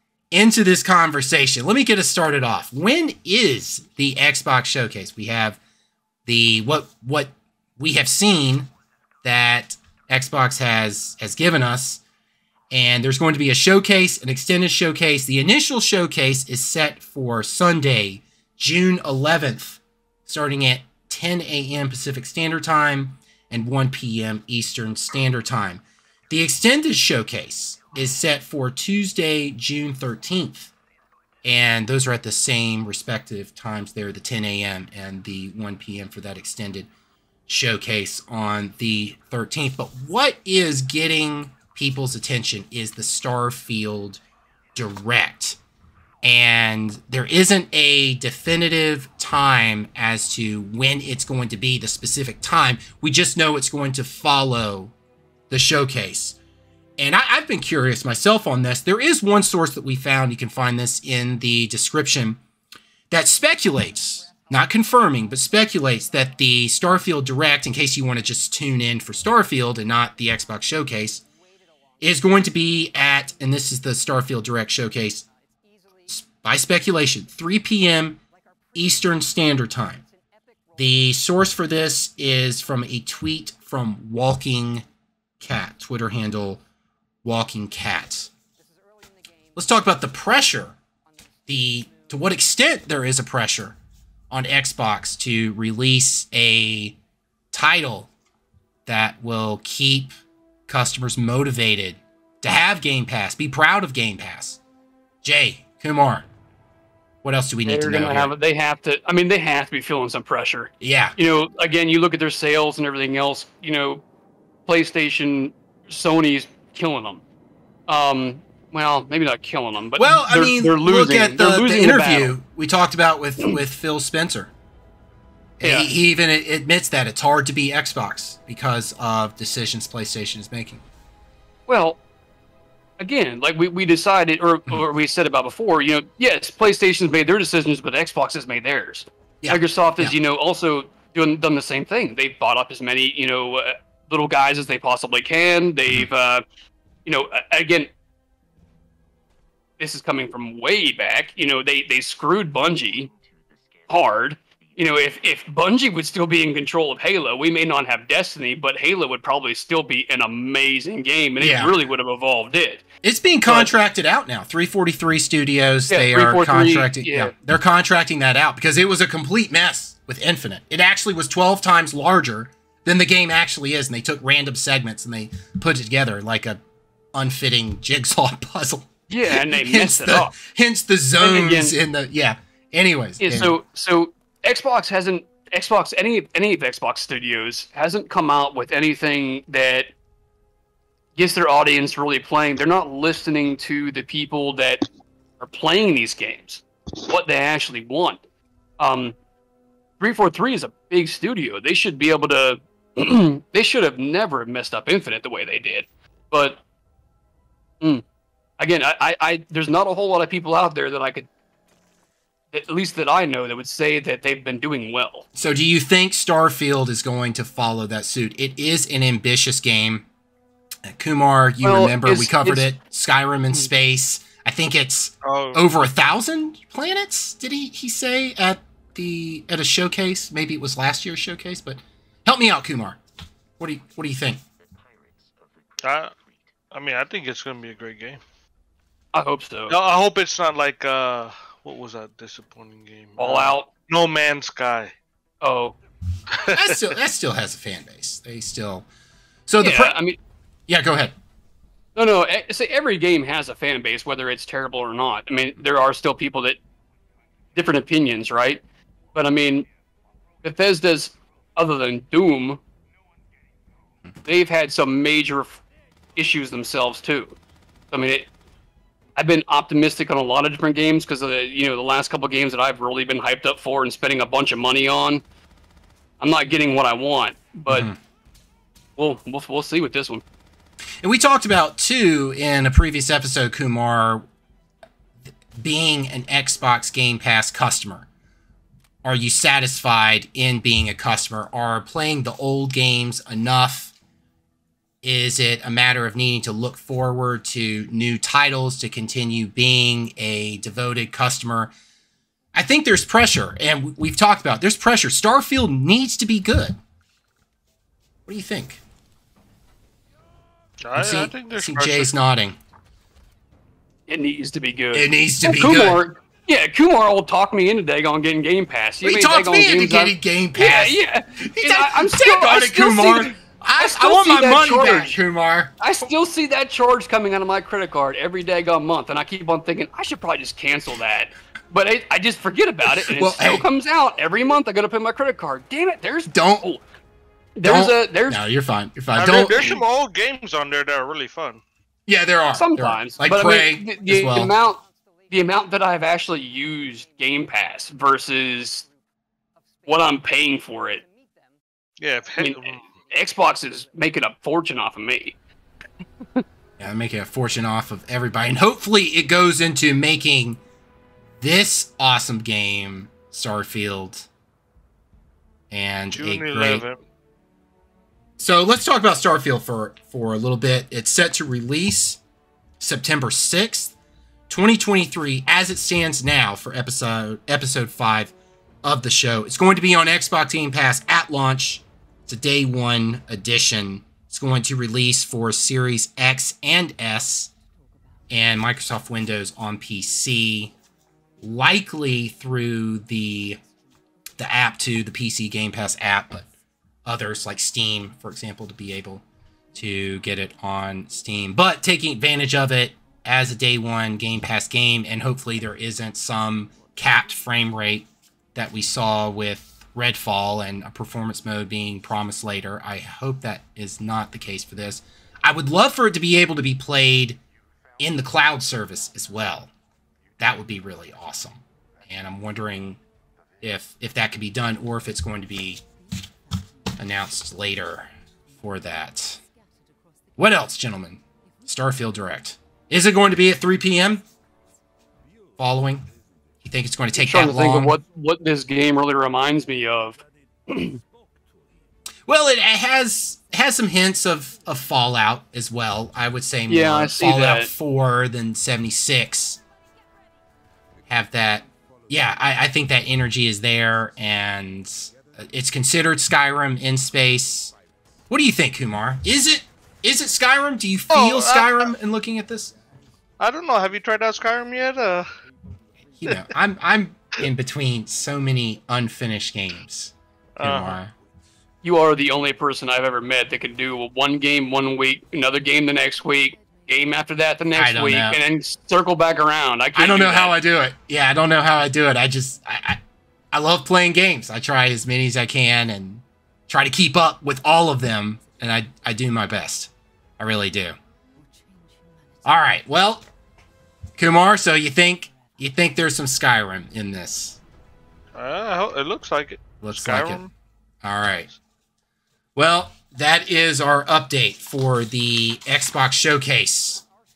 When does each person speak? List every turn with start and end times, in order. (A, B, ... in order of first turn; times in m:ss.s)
0:00.3-0:05.6 A
0:06.2-0:08.7 A
0:09.2-0:12.0 A
0:12.7-0:30.7 A
0:31.4-0:36.9 A
0:37.5-0:44.2 A
0:44.7-0:45.6 A
0:46.2-0:54.9 A
0:55.5-0:56.4 A
0:57.0-1:02.4 A
1:03.1-1:11.2 A
1:12.0-1:15.2 A
1:16.1-1:18.2 A
1:18.7-1:20.0 A
1:20.8-1:24.8 A
1:25.4-1:26.6 A
1:27.2-1:28.3 A
1:29.5-1:30.8 A
1:31.5-1:33.8 A
1:34.3-1:37.0 A
1:37.5-1:38.1 A
1:38.8-1:40.1 A
1:40.7-1:44.6 A
1:45.2-1:46.3 A
1:47.2-1:48.3 A
1:47.6-1:54.0 B
1:50.8-1:51.2 A
1:54.6-1:57.2 B
1:57.9-2:02.3 B
2:00.0-2:04.5 A
2:05.6-2:10.8 A
2:05.6-2:05.9 B
2:11.7-2:12.0 B
2:13.0-2:26.4 B
2:19.4-2:20.1 A
2:27.0-2:27.9 B
2:29.8-2:33.1 B
2:33.9-2:42.8 B
2:41.4-2:41.7 A
2:43.0-2:56.6 A
2:43.4-2:43.7 B
2:45.9-2:47.3 B
2:57.1-3:03.5 A
2:59.1-3:00.4 B
3:01.2-3:01.8 B
3:03.2-3:09.9 B
3:11.2-3:14.9 B
3:15.4-3:18.2 B
3:18.8-3:19.2 B
3:20.0-3:26.6 B
3:28.6-3:31.3 B
3:32.5-3:35.2 B
3:35.3-3:40.0 A
3:40.8-3:53.0 A
3:41.6-3:42.7 B
3:45.2-3:45.6 C
3:53.6-3:54.4 A
3:55.8-3:56.1 C
3:56.7-3:58.2 C
3:59.1-3:59.8 B
3:59.7-4:04.9 C
4:03.2-4:03.7 B
4:05.4-4:05.8 B
4:06.3-4:06.8 C
4:06.5-4:08.9 A
4:09.5-4:09.9 A
4:09.6-4:10.2 B
4:10.7-4:11.1 A
4:12.0-4:16.6 B
4:17.5-4:18.6 B
4:19.1-4:19.7 B
4:20.4-4:22.6 B
4:24.2-4:25.6 B
4:26.2-4:27.4 B
4:27.9-4:28.3 B
4:29.2-4:35.2 B
4:36.2-4:37.9 B
4:37.7-4:38.0 A
4:39.0-4:40.2 B
4:41.0-4:44.2 A
4:45.6-4:48.1 A
4:49.0-4:53.9 A
4:55.0-5:01.7 A
5:02.5-5:06.8 A
5:08.3-5:08.8 A
5:10.8-5:12.1 C
5:10.9-5:12.6 A
5:14.1-5:25.2 B
5:14.9-5:16.0 A
5:19.0-5:25.8 A
5:25.8-5:36.8 B
5:33.0-5:33.7 A
5:36.3-5:36.6 A
5:37.6-5:38.4 B
5:37.6-5:39.8 A
5:39.1-5:41.6 C
5:39.5-5:39.8 B
5:42.1-5:44.5 A
5:42.5-5:48.8 B
5:49.8-5:51.0 B
5:52.0-5:52.8 C
5:52.4-5:55.4 B
5:56.8-6:00.6 A
6:01.4-6:04.3 A
6:05.7-6:06.8 A
6:06.1-6:07.0 C
6:08.4-6:12.2 A
6:12.8-6:13.9 A
6:14.5-6:18.3 A
6:18.8-6:27.5 A
6:28.3-6:30.7 A
6:31.4-6:33.6 A
6:34.4-6:36.5 A
6:37.0-6:57.4 A
6:58.0-6:59.7 A
7:00.4-7:03.0 A
7:03.6-7:05.8 A
7:07.0-7:09.4 A
7:10.4-7:14.2 A
7:15.6-7:16.1 A
7:16.6-7:18.0 A
7:17.2-7:21.0 B
7:22.3-7:29.6 A
7:26.7-7:27.7 B
7:31.1-7:37.7 A
7:38.3-7:42.7 A
7:41.1-7:41.9 C
7:43.4-7:45.3 C
7:46.2-7:51.1 A
7:50.6-7:51.0 C
7:51.8-8:00.5 B
7:57.7-7:58.4 A
7:59.9-8:03.0 A
8:03.5-8:11.0 A
8:12.4-8:13.2 A
8:14.2-8:17.6 A
8:18.3-8:20.5 C
8:19.8-8:20.4 A
8:21.0-8:21.5 A
8:22.6-8:27.0 A